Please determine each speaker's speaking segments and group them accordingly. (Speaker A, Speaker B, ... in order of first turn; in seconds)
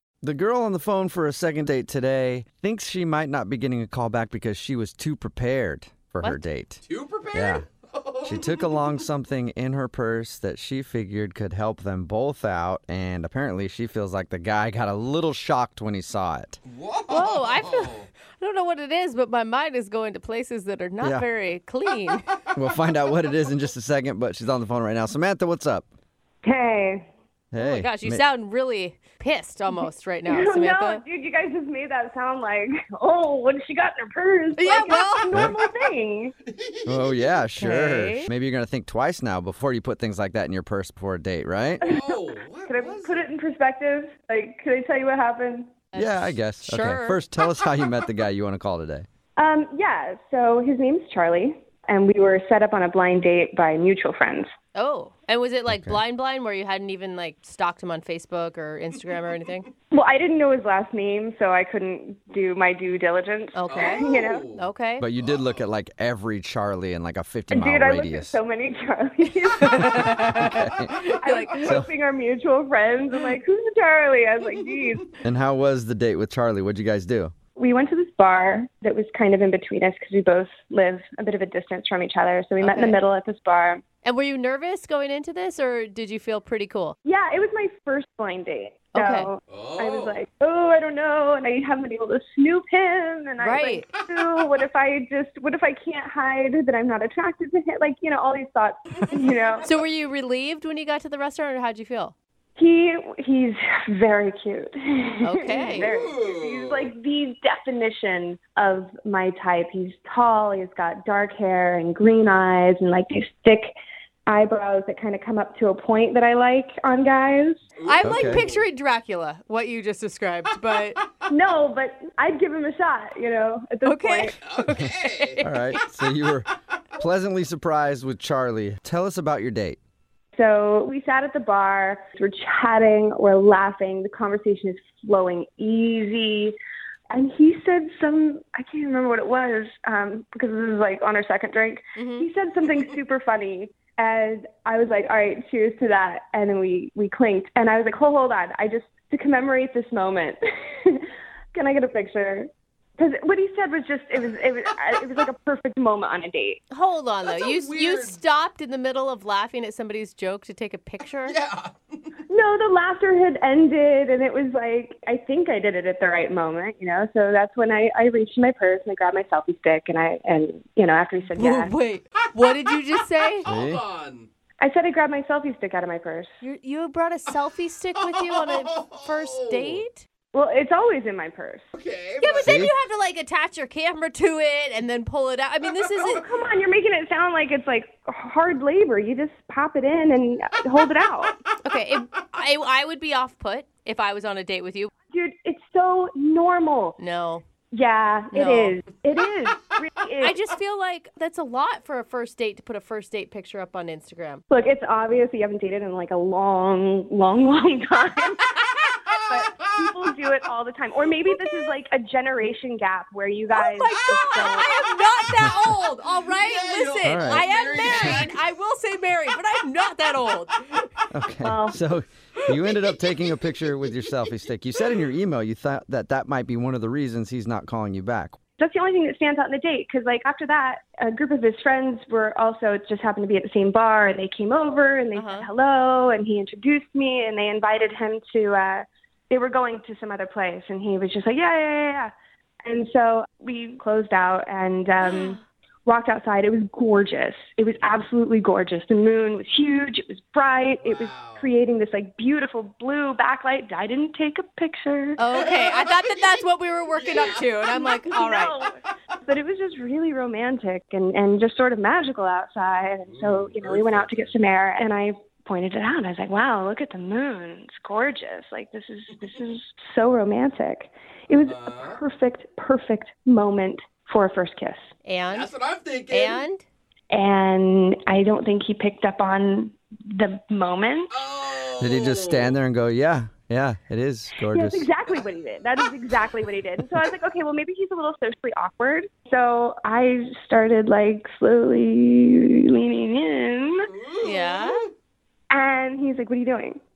Speaker A: 0.2-6.8, 7.3-7.7, 8.2-16.6, 22.5-25.9, 27.5-28.2, 36.9-41.8, 45.9-49.1, 55.7-56.0, 65.0-68.4, 70.3-71.0, 71.6-71.9, 75.2-77.3, 118.0-118.5, 125.4-126.5, 127.0-129.8, 173.5-173.8, 182.5-182.7, 217.0-218.3, 221.1-228.4, 281.8-284.9
Speaker B: 6.8-8.9, 16.7-18.1, 36.5-37.4, 41.8-43.3, 63.7-65.7, 74.5-75.0, 89.5-90.2, 99.0-99.7, 105.6-106.9, 117.8-118.7, 124.4-125.5, 157.2-158.2, 161.2-162.1, 173.4-174.3, 177.9-179.8, 181.7-182.7, 185.7-186.1, 209.1-209.9, 216.2-218.4, 222.9-224.1, 250.8-251.5, 255.3-256.3, 256.9-257.8, 263.0-264.4, 271.4-272.0, 275.3-276.5, 281.1-282.6, 285.1-285.9, 293.9-294.9
Speaker C: 17.1-22.3, 27.6-31.0, 34.6-35.4, 37.6-38.3, 45.9-47.2, 54.8-59.7, 63.5-65.1, 69.6-71.7, 82.6-83.0, 84.0-87.0, 88.9-89.3, 93.4-93.9, 99.7-102.1, 105.2-105.9, 117.8-121.0, 123.8-125.8, 142.0-142.3, 156.7-161.4, 171.3-173.5, 176.4-180.1, 182.2-186.2, 191.6-194.9, 197.0-197.4, 198.3-198.8, 200.2-204.4, 213.5-220.9, 235.2-235.5, 245.0-245.4, 255.2-258.5, 275.1-275.5, 276.1-276.6, 294.2-294.8
Speaker D: 26.4-27.1, 29.7-36.3, 41.8-45.8, 49.4-54.5, 59.9-64.5, 67.5-70.3, 71.1-75.1, 77.6-83.8, 87.0-99.7, 102.6-113.7, 114.3-117.6, 121.3-124.4, 130.4-136.6, 137.1-156.6, 162.3-171.7, 174.6-176.3, 180.3-181.7, 186.0-191.3, 195.1-197.0, 197.7-200.4, 204.5-208.5, 209.3-214.7, 221.4-221.8, 228.6-242.1, 242.6-255.2, 257.8-258.7, 259.3-274.8, 277.1-281.1, 284.4-293.9, 295.5-296.8